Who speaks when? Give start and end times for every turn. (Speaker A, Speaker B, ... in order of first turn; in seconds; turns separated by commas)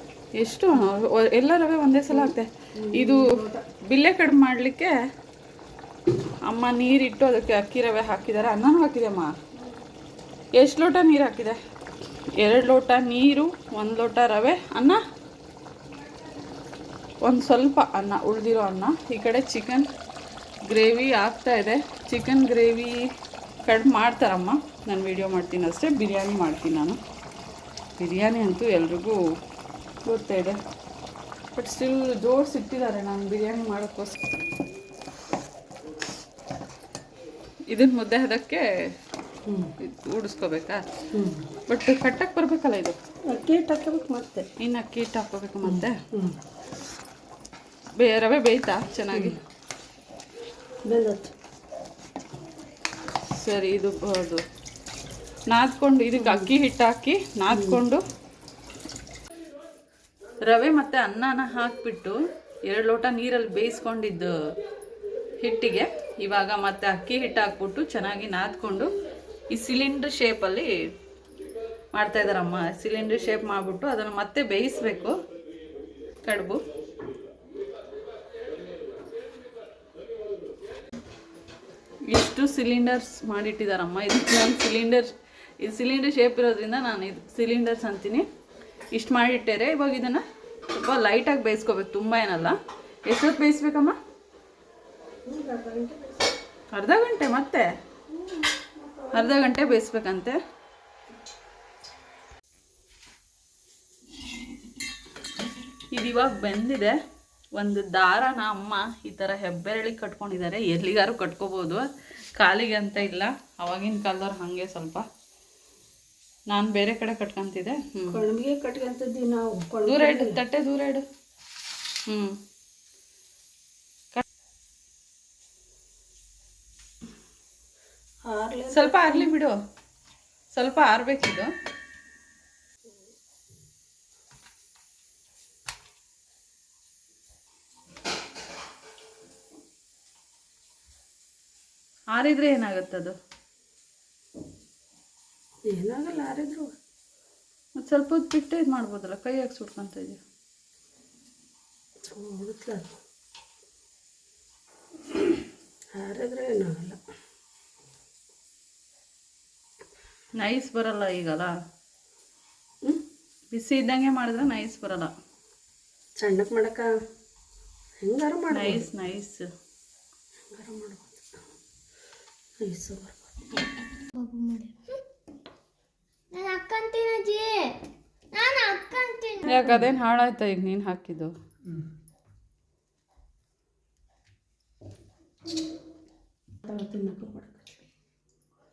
Speaker A: 0.3-3.3, Speaker B: 2.1-3.6, Speaker A: 3.8-4.9, Speaker A: 6.5-9.3, Speaker A: 10.5-11.6, Speaker A: 12.3-15.0, Speaker A: 17.2-19.9, Speaker A: 20.6-23.0, Speaker A: 23.6-27.0, Speaker A: 28.0-29.2, Speaker A: 30.1-30.6, Speaker A: 31.5-34.1, Speaker A: 37.7-38.7, Speaker A: 39.8-40.9, Speaker B: 41.1-41.5, Speaker A: 41.7-43.0, Speaker B: 43.3-44.5, Speaker A: 44.6-46.0, Speaker B: 45.6-46.4, Speaker A: 48.0-49.4, Speaker B: 50.9-51.3, Speaker A: 53.3-54.4, Speaker A: 55.5-58.0, Speaker B: 56.1-56.5, Speaker B: 57.5-57.8, Speaker A: 60.4-64.3, Speaker A: 65.4-68.9, Speaker A: 69.5-70.7, Speaker A: 71.9-75.1, Speaker A: 76.2-76.6, Speaker A: 82.1-85.1, Speaker A: 85.6-88.2, Speaker A: 88.9-94.0, Speaker B: 95.3-96.3, Speaker A: 96.7-97.7, Speaker B: 98.2-99.6, Speaker A: 99.1-100.4, Speaker A: 105.9-107.0, Speaker A: 107.5-111.8, Speaker A: 112.4-115.0, Speaker A: 116.5-118.2, Speaker B: 118.1-120.4, Speaker A: 119.9-121.0, Speaker A: 122.1-122.3, Speaker B: 128.3-129.3, Speaker A: 128.7-129.6, Speaker A: 130.5-131.5, Speaker A: 142.1-143.1, Speaker B: 145.7-146.7, Speaker A: 147.8-150.2, Speaker B: 152.1-152.9, Speaker B: 155.9-157.0, Speaker A: 160.4-161.5, Speaker A: 163.5-165.1, Speaker B: 166.2-166.9, Speaker B: 168.0-168.9, Speaker A: 168.5-169.4, Speaker B: 170.5-171.3, Speaker B: 172.6-173.3, Speaker C: 174.2-175.0, Speaker C: 176.3-177.8, Speaker C: 178.3-179.6, Speaker A: 179.4-181.3, Speaker B: 186.7-187.7